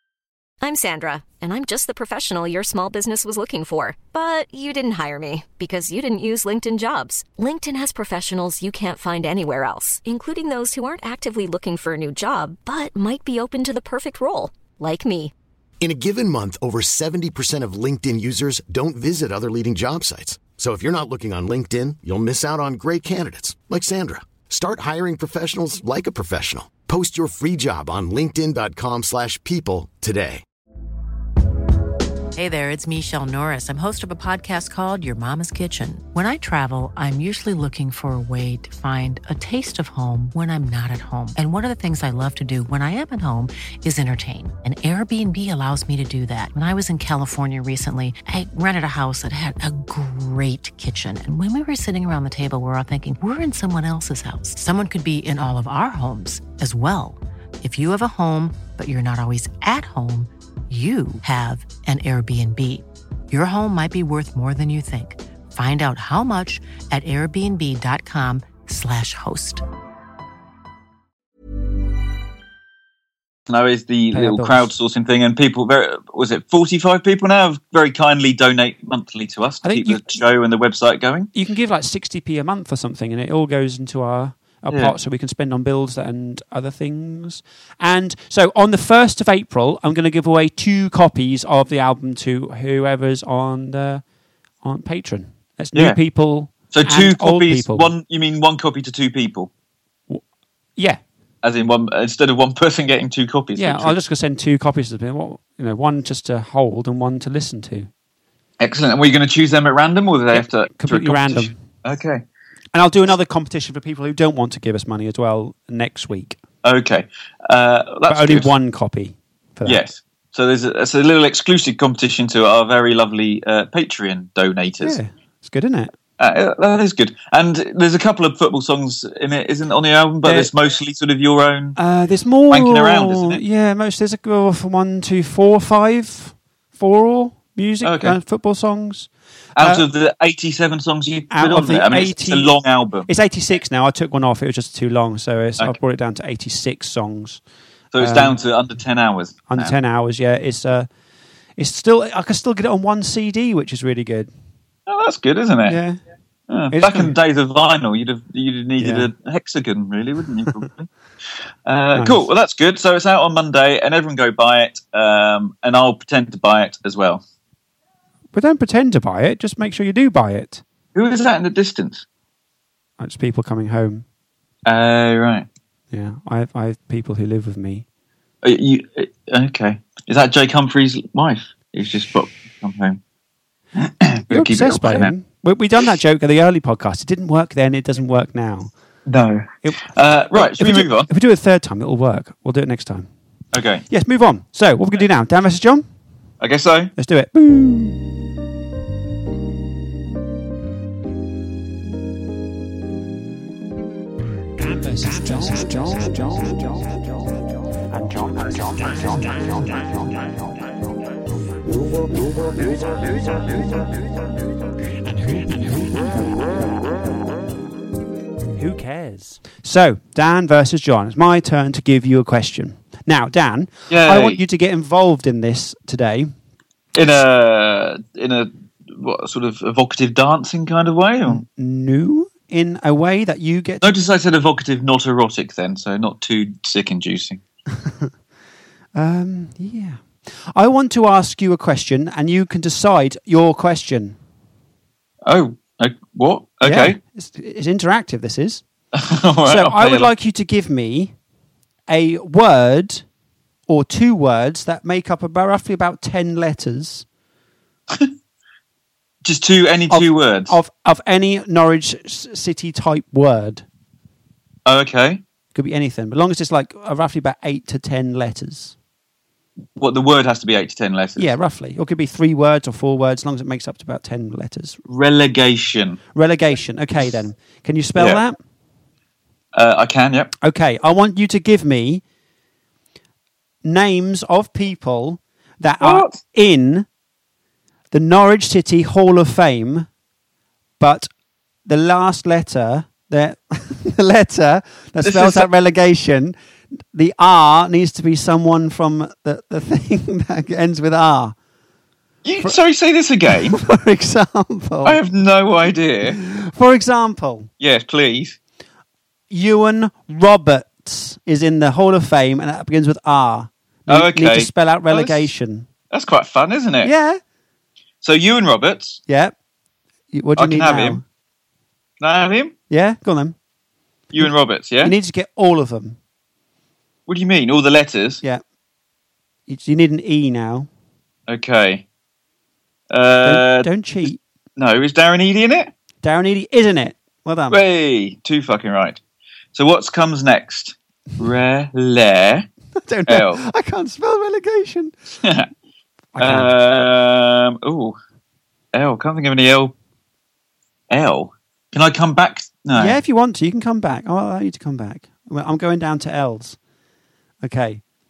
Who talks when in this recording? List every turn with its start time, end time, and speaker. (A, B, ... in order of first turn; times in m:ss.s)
0:00.6-0:15.3 A
0:15.8-0:30.4 B
0:32.4-1:09.6 C
1:13.5-1:21.3 D
1:14.1-1:14.7 E
1:19.6-1:20.1 E
1:21.3-1:34.0 E
1:24.7-1:24.9 D
1:34.6-1:37.9 E
1:35.7-1:36.0 D
1:36.7-1:39.5 D
1:41.4-1:43.9 D
1:43.6-1:47.9 E
1:48.6-1:52.2 D
1:50.3-1:51.6 E
1:52.7-1:56.4 E
1:56.6-1:58.5 D
1:58.1-1:59.8 E
1:59.6-2:05.0 D
2:04.8-2:05.9 E
2:06.2-2:11.8 D
2:10.2-2:10.5 E
2:11.8-2:19.9 E
2:12.5-2:13.4 D
2:17.8-2:18.2 D
2:19.6-2:23.1 D
2:21.3-2:22.5 E
2:23.1-2:27.4 E
2:27.9-2:29.8 D
2:28.0-2:28.4 E
2:29.5-2:30.9 E
2:31.6-2:34.3 E
2:34.9-2:35.8 D
2:35.6-2:36.0 E
2:36.5-2:40.9 D
2:36.7-2:37.1 E
2:38.8-2:39.1 E
2:41.6-2:47.2 D
2:41.9-2:42.2 E
2:48.3-2:50.6 E
2:50.9-2:52.0 D
2:53.0-2:54.0 E
2:54.6-2:55.5 D
2:55.9-2:57.8 E
2:58.4-3:03.0 D
3:03.8-3:05.1 D
3:04.3-3:08.7 E
3:09.1-3:11.1 D
3:09.6-3:13.1 E
3:13.5-3:13.9 D
3:13.9-3:15.8 E
3:16.4-3:16.9 D
3:17.0-3:18.1 E
3:24.6-3:26.9 E
3:27.9-3:30.4 E
3:32.8-3:33.8 E
3:35.0-3:36.7 E
3:38.6-3:46.3 E
3:43.9-3:44.4 D
3:46.9-3:51.4 D
3:51.3-3:53.9 E
3:53.8-3:57.4 D
3:58.9-4:04.2 E
4:05.2-4:07.0 D
4:06.6-4:08.6 E
4:08.9-4:10.1 D
4:09.4-4:11.1 E
4:11.9-4:13.0 E
4:13.7-4:17.1 E
4:19.2-4:20.6 D
4:19.9-4:23.6 E
4:24.6-4:25.2 D
4:25.5-4:28.7 E
4:29.8-4:31.3 D
4:31.2-4:34.8 E
4:34.9-4:36.0 D
4:36.1-4:38.4 E
4:38.0-4:38.2 D
4:39.5-4:40.3 D
4:40.4-4:42.0 E
4:43.6-4:46.9 E
4:45.8-4:46.2 D
4:47.9-4:49.9 E
4:50.8-4:51.1 E
4:51.6-4:56.4 E
4:55.0-4:55.5 D
4:56.9-5:01.4 E
5:02.2-5:03.6 D
5:03.3-5:05.0 E
5:04.8-5:06.2 D
5:06.0-5:07.5 E
5:07.6-5:08.4 D
5:09.3-5:15.7 E
5:13.9-5:15.3 D
5:15.9-5:16.9 D
5:16.8-5:17.2 E
5:18.0-5:19.0 D
5:19.1-5:19.3 E
5:20.1-5:21.0 E
5:20.4-5:21.0 D
5:22.0-5:22.5 D
5:22.7-5:23.4 E
5:24.1-5:24.9 D
5:24.8-5:26.0 E
5:27.1-5:28.2 D
5:29.5-5:30.7 E
5:31.3-5:31.8 D
5:32.9-5:35.7 D
5:33.2-5:34.2 E
5:36.0-5:37.6 E
5:37.5-5:39.0 D
5:39.5-5:42.5 D
5:42.8-5:44.9 E
5:43.1-5:43.4 D
5:45.2-5:45.5 D
5:46.1-5:46.5 E
5:46.2-5:48.0 D
5:48.7-5:49.8 D
5:50.9-5:53.0 D
5:52.8-5:56.6 E
5:57.4-5:57.8 E